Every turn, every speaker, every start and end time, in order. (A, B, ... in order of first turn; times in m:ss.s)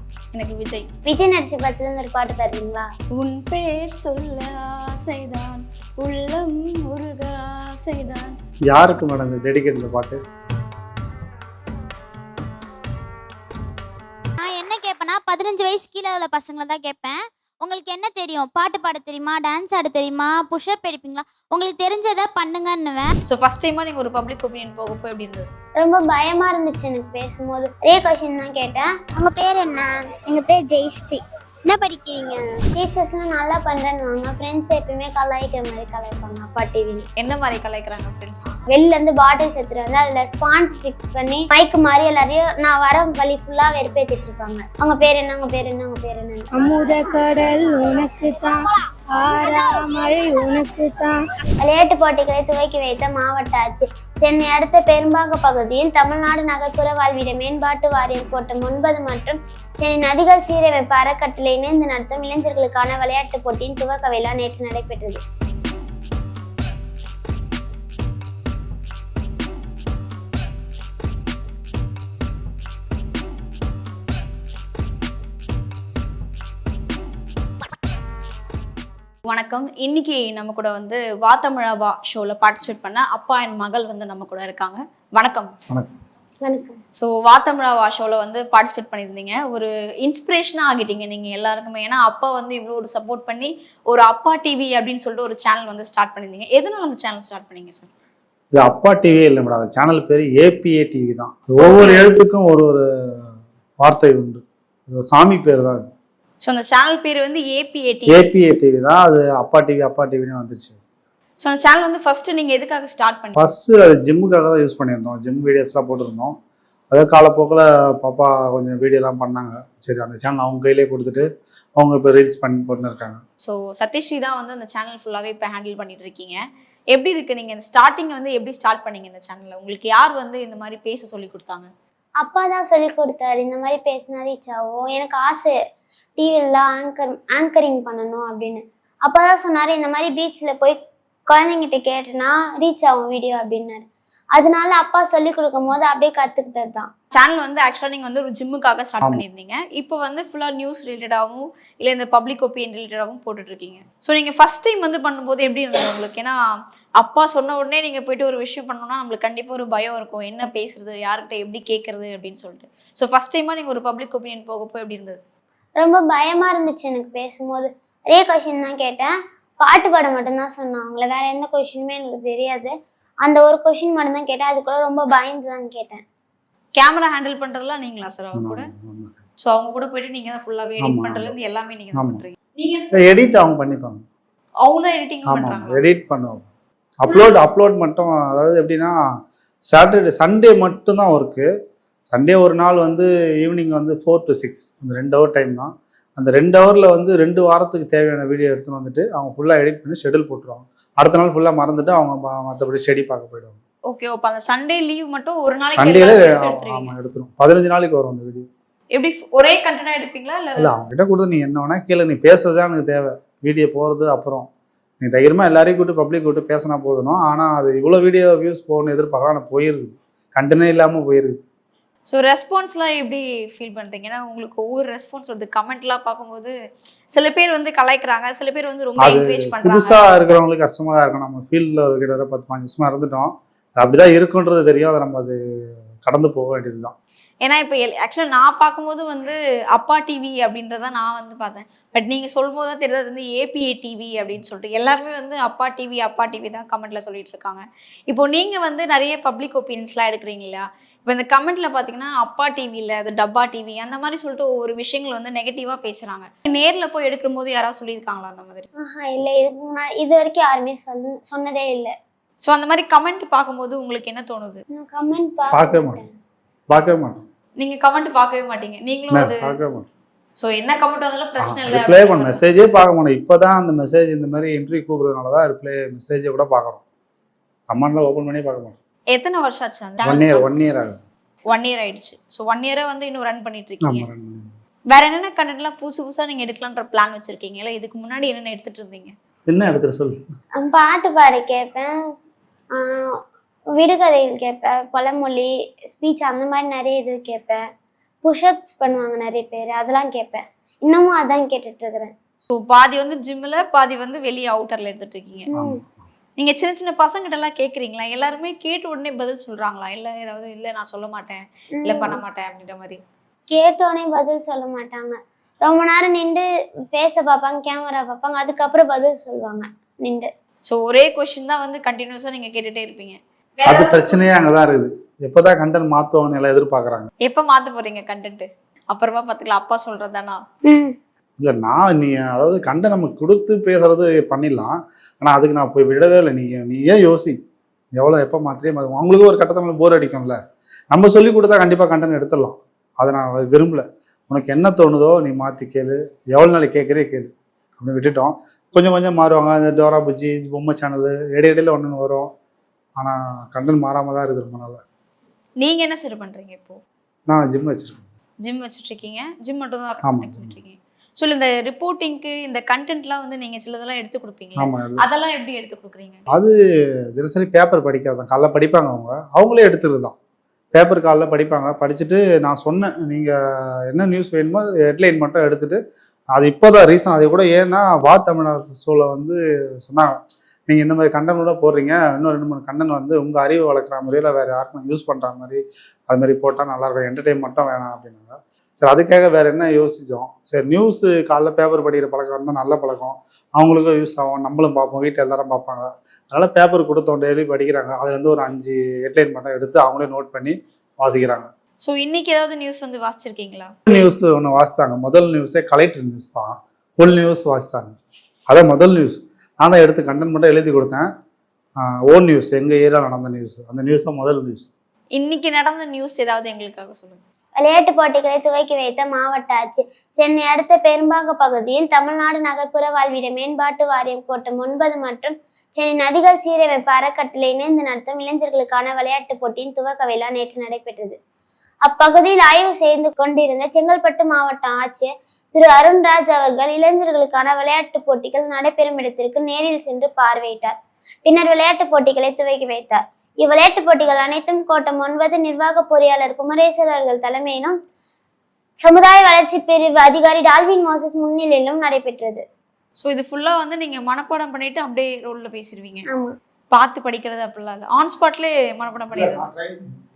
0:00.3-0:00.9 A
0:01.0-0:02.9 B
0:03.1-0:08.4 A
0:08.7-0:10.2 C
0:14.4-0:23.1 D
0:23.2-0:25.5 A
0:25.8-0:37.1 B
0:37.2-0:38.5 A
0:38.7-0:46.4 B
0:46.6-0:48.5 E
0:49.4-0:50.9 E
0:51.6-1:05.2 B
1:19.3-1:25.5 A
1:26.4-1:26.8 B
1:26.9-1:37.9 A
1:38.5-1:45.9 C
1:41.6-1:42.1 A
1:46.4-1:48.3 A
1:48.1-1:50.8 C
1:51.4-1:53.5 A
1:53.3-1:56.3 C
1:56.9-2:03.2 C
2:03.4-2:06.4 A
2:06.9-2:11.7 A
2:12.2-2:15.5 B
2:16.2-2:20.8 B
2:21.3-2:26.9 B
2:27.1-2:36.3 A
2:37.0-2:45.2 A
2:45.8-2:56.0 B
2:56.8-2:58.7 A
2:58.3-2:59.2 C
2:59.4-3:03.1 A
3:00.8-3:01.3 C
3:01.9-3:02.2 C
3:02.9-3:04.0 C
3:04.6-3:05.8 A
3:05.3-3:06.5 C
3:07.0-3:09.0 C
3:09.7-3:11.5 C
3:12.1-3:23.6 C
3:23.9-3:26.9 A
3:25.8-3:28.5 C
3:28.9-3:30.7 A
3:30.6-3:34.5 C
3:35.0-3:41.4 C
3:42.1-3:46.5 A
3:47.1-3:50.1 A
3:49.0-3:55.4 C
3:56.0-3:57.0 C
3:57.4-4:18.7 A
4:18.8-4:21.9 B
4:22.4-4:24.6 A
4:24.7-4:26.0 B
4:25.5-4:26.0 C
4:26.7-4:27.2 C
4:27.6-4:29.4 A
4:29.1-4:29.9 C
4:30.4-4:32.4 A
4:31.4-4:36.8 C
4:37.7-4:38.8 C
4:39.1-4:40.4 A
4:40.0-4:41.0 C
4:41.5-4:44.0 A
4:43.8-4:44.5 C
4:44.9-4:49.1 A
4:49.5-4:50.2 C
4:50.6-4:51.9 B
4:52.8-4:53.2 B
4:53.7-4:57.6 B
4:58.2-5:02.1 B
5:02.5-5:05.5 A
5:05.5-5:05.8 B
5:05.5-5:05.8 C
5:06.4-5:13.0 A
5:11.8-5:12.2 B
5:13.5-5:20.3 B
5:20.7-5:24.4 A
5:23.6-5:27.1 C
5:27.2-5:30.4 A
5:30.7-5:30.9 B
5:31.4-5:37.4 C
5:38.0-5:40.4 C
5:40.9-5:52.3 C
5:53.0-5:54.8 C
5:55.6-5:56.8 A
5:57.3-5:58.0 C
5:58.4-6:06.2 A
6:00.0-6:00.5 C
6:04.6-6:05.0 C
6:07.2-6:10.2 C
6:10.7-6:13.4 C
6:13.9-6:15.8 C
6:16.3-6:20.2 C
6:20.7-6:41.5 C
6:41.8-6:43.7 A
6:43.9-6:48.0 C
6:48.5-6:51.1 C
6:51.8-6:54.7 C
6:55.1-6:57.2 A
6:57.6-7:11.2 B
7:11.8-7:27.8 B
7:28.8-7:32.4 B
7:33.0-7:36.0 A
7:36.7-7:39.4 A
7:39.1-7:39.9 C